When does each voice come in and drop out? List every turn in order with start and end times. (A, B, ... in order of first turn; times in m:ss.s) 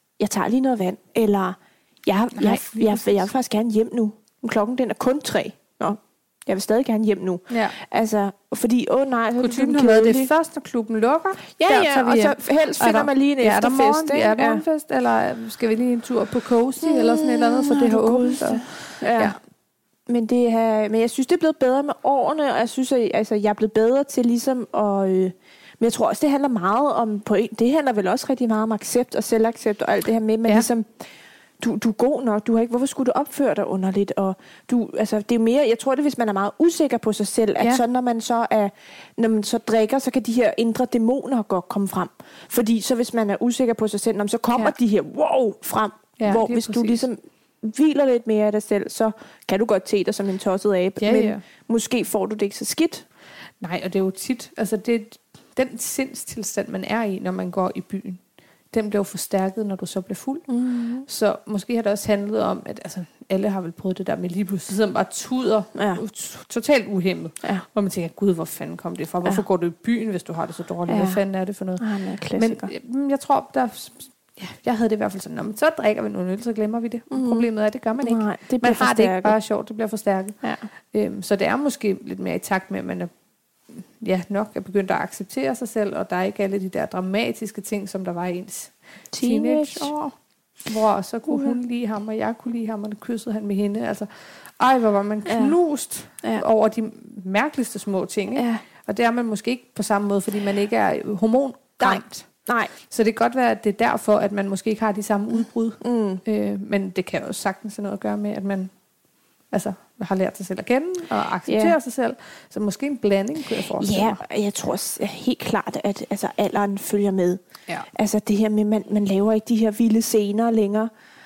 0:00.2-0:10.3 A
0:02.4-0:03.3 B
0:07.5-0:07.8 B
0:09.4-0:19.4 B
0:11.6-0:14.6 A
0:16.8-0:19.4 A
0:20.1-0:31.0 A
0:31.6-0:53.1 A
0:46.2-0:47.0 B
0:51.0-0:51.4 B
0:53.6-1:00.5 B
1:00.5-1:01.1 A
1:01.0-1:20.4 B
1:05.8-1:06.0 A
1:10.9-1:11.2 A
1:11.8-1:12.7 A
1:17.1-1:17.4 A
1:18.0-1:19.4 A
1:20.9-1:23.1 B
1:23.7-1:30.0 B
1:29.1-1:30.1 A
1:30.7-1:48.7 B
1:31.3-1:31.6 A
1:35.3-1:35.6 A
1:38.4-1:38.6 A
1:41.8-1:42.7 A
1:45.8-1:46.2 A
1:49.5-1:54.2 B
1:51.5-1:51.8 A
1:53.8-1:57.4 A
1:57.9-2:00.9 A